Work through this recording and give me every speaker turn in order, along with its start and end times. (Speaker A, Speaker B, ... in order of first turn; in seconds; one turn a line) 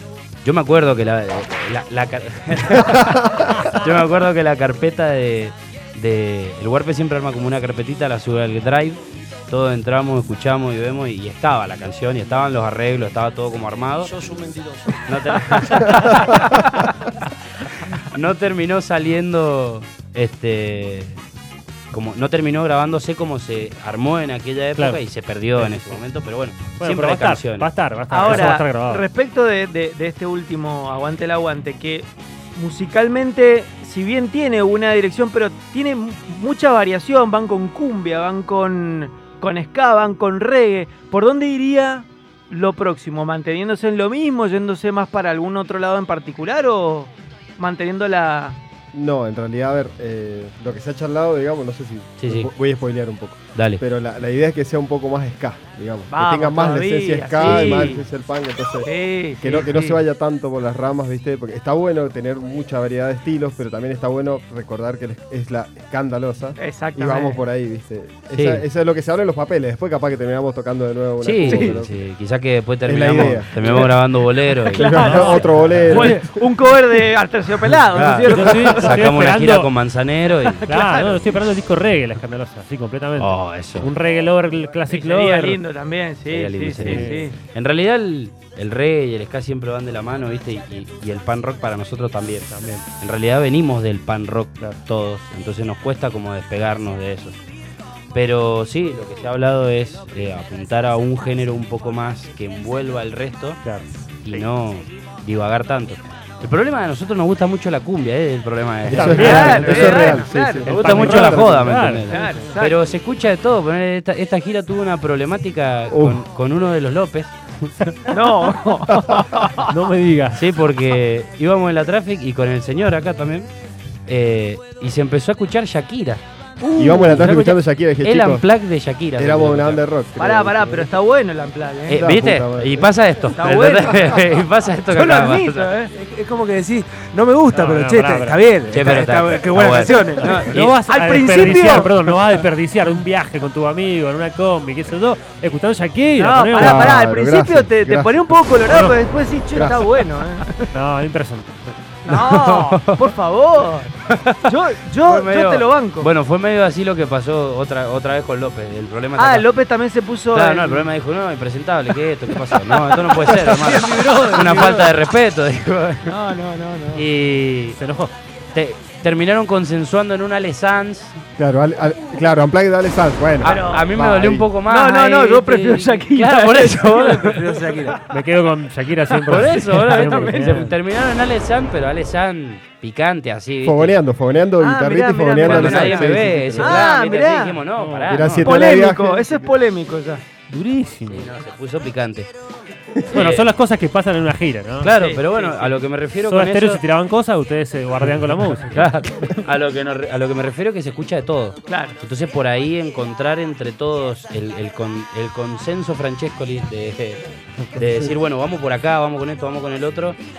Speaker A: 0.4-16.6
Speaker B: 3.1-3.4
Speaker C: 15.4-16.9
Speaker A: 17.9-21.2
Speaker A: 21.9-27.7
Speaker D: 25.5-26.0
Speaker D: 26.8-29.0
Speaker C: 28.1-48.6
Speaker A: 28.2-28.6
Speaker B: 48.9-72.0
Speaker A: 52.2-52.5
Speaker A: 53.5-53.8
Speaker C: 56.1-58.0
Speaker A: 57.4-57.9
Speaker C: 58.8-60.0
Speaker C: 66.6-67.4
Speaker A: 68.3-68.6
Speaker A: 71.2-75.4
Speaker C: 71.4-71.8
Speaker B: 72.8-73.9
Speaker C: 73.6-73.9
Speaker C: 74.6-78.8
Speaker B: 74.7-76.2
Speaker D: 74.9-76.2
Speaker A: 77.8-80.7
Speaker D: 78.2-79.7
Speaker C: 80.6-81.3
Speaker D: 80.7-85.6
Speaker A: 83.2-83.9
Speaker C: 84.9-87.3
Speaker A: 86.3-97.4
Speaker D: 86.7-87.3
Speaker D: 92.5-92.8
Speaker A: 98.1-103.6
Speaker D: 103.6-104.4
Speaker A: 104.2-110.1
Speaker B: 108.8-111.7
Speaker D: 108.9-112.5
Speaker C: 109.0-110.7
Speaker A: 110.7-117.3
Speaker C: 112.1-112.8
Speaker B: 115.9-116.2
Speaker C: 118.1-119.7
Speaker D: 119.6-120.4
Speaker A: 120.3-123.5
Speaker A: 124.1-129.8
Speaker B: 126.8-128.5
Speaker B: 129.2-130.9
Speaker C: 130.2-132.0
Speaker A: 131.8-135.7
Speaker B: 131.9-132.9
Speaker C: 133.3-134.3
Speaker C: 134.9-135.9
Speaker E: 135.9-140.6
Speaker D: 137.5-138.4
Speaker A: 138.7-140.8
Speaker D: 140.2-146.9
Speaker C: 140.8-142.1
Speaker C: 146.2-150.7
Speaker B: 146.6-148.3
Speaker D: 148.7-148.9
Speaker B: 149.5-150.1
Speaker D: 150.7-151.8
Speaker C: 152.0-156.1
Speaker A: 152.1-153.1
Speaker A: 154.1-159.5
Speaker C: 159.2-160.9
Speaker A: 160.3-166.2
Speaker C: 162.9-164.9
Speaker C: 166.1-167.1
Speaker A: 166.9-167.8
Speaker D: 167.7-168.1
Speaker A: 168.5-171.2
Speaker B: 171.4-174.5
Speaker A: 173.4-177.6
Speaker C: 173.4-173.9
Speaker C: 174.7-177.0
Speaker E: 176.8-178.0
Speaker D: 178.1-180.7
Speaker A: 179.2-184.0
Speaker C: 179.9-180.6
Speaker B: 183.6-186.8
Speaker C: 184.6-187.6
Speaker A: 185.4-188.4
Speaker D: 187.8-188.6
Speaker B: 188.1-189.4
Speaker C: 188.4-190.2
Speaker D: 190.5-191.3
Speaker A: 191.1-192.3
Speaker D: 193.1-194.9
Speaker A: 193.1-193.5
Speaker A: 194.8-196.8
Speaker C: 194.8-195.7
Speaker D: 196.2-198.9
Speaker A: 198.6-210.2
Speaker C: 201.7-202.0
Speaker D: 207.7-208.1